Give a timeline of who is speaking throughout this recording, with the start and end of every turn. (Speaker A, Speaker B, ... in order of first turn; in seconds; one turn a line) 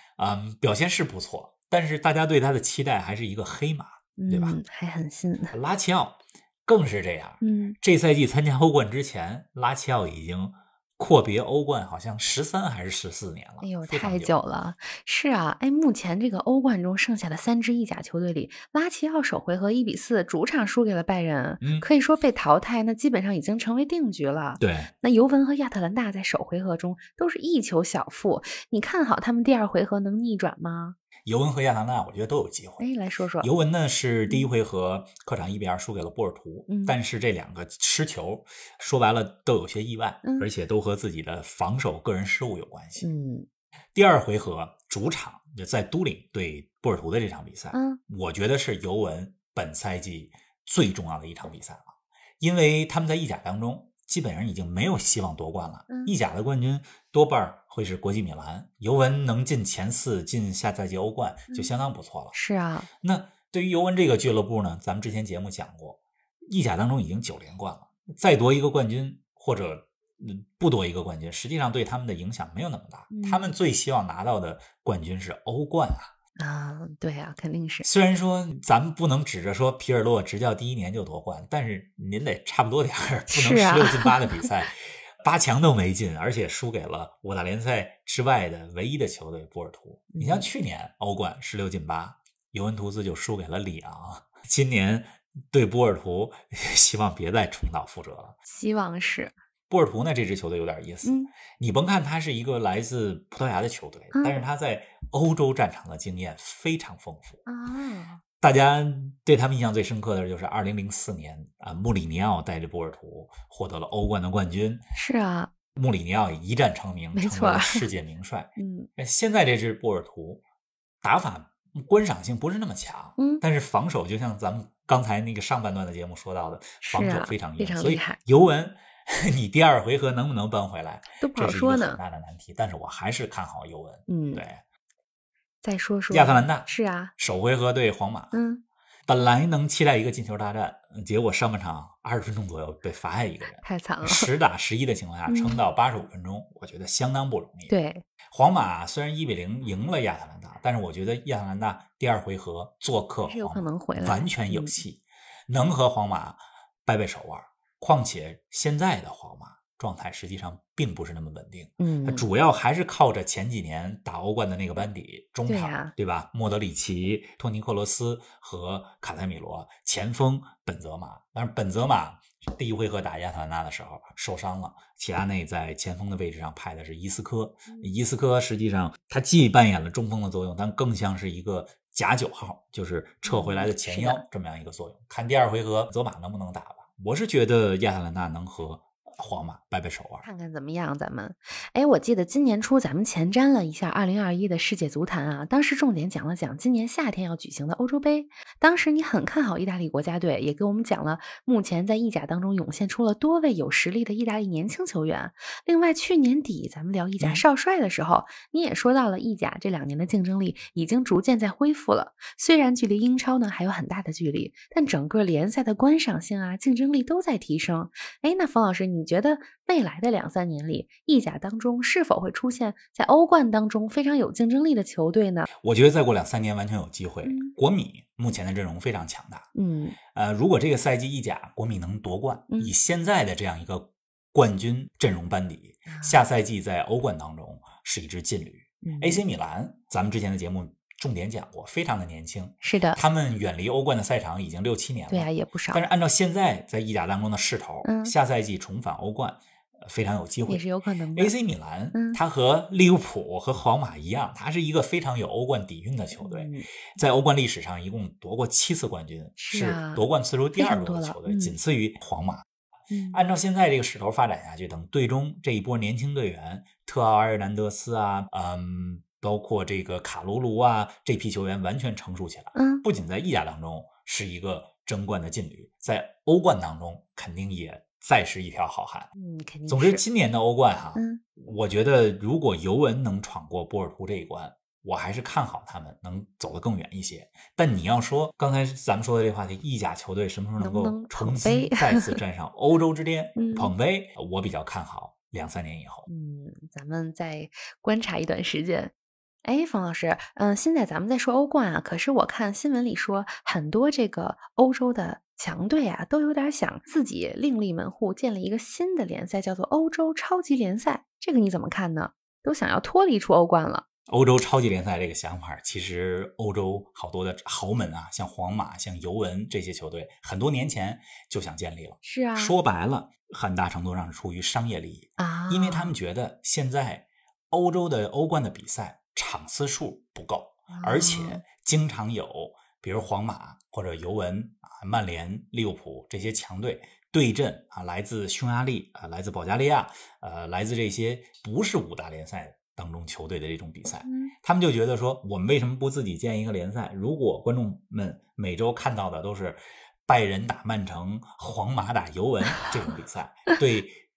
Speaker A: 0.2-4.6
Speaker B: 4.2-5.5
Speaker A: 5.5-14.3
Speaker B: 7.4-7.8
Speaker B: 13.6-30.9
Speaker A: 21.6-21.9
Speaker A: 24.6-24.9
Speaker A: 31.2-32.9
Speaker B: 32.8-33.5
Speaker A: 33.4-43.1
Speaker B: 36.7-37.0
Speaker B: 40.2-40.5
Speaker B: 43.0-43.5
Speaker A: 43.9-62.4
Speaker B: 47.7-48.0
Speaker B: 55.9-56.1
Speaker B: 62.3-62.9
Speaker A: 63.0-76.1
Speaker B: 73.1-73.5
Speaker B: 76.4-77.8
Speaker A: 77.8-98.4
Speaker B: 83.3-84.3
Speaker B: 90.1-90.5
Speaker B: 98.5-99.3
Speaker A: 99.7-107.4
Speaker B: 101.0-101.3
Speaker B: 104.1-104.4
Speaker B: 107.5-108.2
Speaker A: 108.4-114.8
Speaker B: 114.9-115.5
Speaker A: 115.8-120.4
Speaker B: 117.1-117.8
Speaker B: 118.6-118.9
Speaker A: 121.0-134.6
Speaker B: 126.8-128.2
Speaker B: 131.2-132.0
Speaker B: 134.1-134.4
Speaker B: 135.6-137.1
Speaker A: 136.1-138.4
Speaker B: 138.3-138.6
Speaker A: 139.1-147.7
Speaker B: 143.6-144.3
Speaker B: 145.3-145.6
Speaker B: 147.7-148.0
Speaker A: 148.3-190.2
Speaker B: 153.2-154.8
Speaker B: 161.8-162.3
Speaker B: 165.4-165.9
Speaker B: 183.2-184.2
Speaker B: 190.2-225.5
Speaker A: 207.2-207.4
Speaker A: 225.6-229.5
Speaker B: 227.2-227.5
Speaker B: 229.5-230.0
Speaker A: 230.1-262.4
Speaker B: 232.5-232.8
Speaker B: 235.9-236.2
Speaker B: 238.8-239.2
Speaker B: 242.6-243.0
Speaker B: 245.1-245.9
Speaker B: 247.8-248.1
Speaker B: 250.5-251.3
Speaker B: 256.2-256.7
Speaker B: 259.4-260.0
Speaker B: 260.6-261.6
Speaker B: 262.9-263.2
Speaker A: 263.1-279.1
Speaker B: 272.5-272.8
Speaker B: 279.1-280.0
Speaker A: 279.7-296.1
Speaker B: 280.9-281.2
Speaker B: 290.6-292.2
Speaker B: 293.4-293.7
Speaker B: 296.1-298.9
Speaker B: 299.4-313.8
Speaker A: 314.1-354.0
Speaker B: 322.0-322.6
Speaker B: 325.2-326.0
Speaker B: 330.7-331.4
Speaker B: 344.0-344.3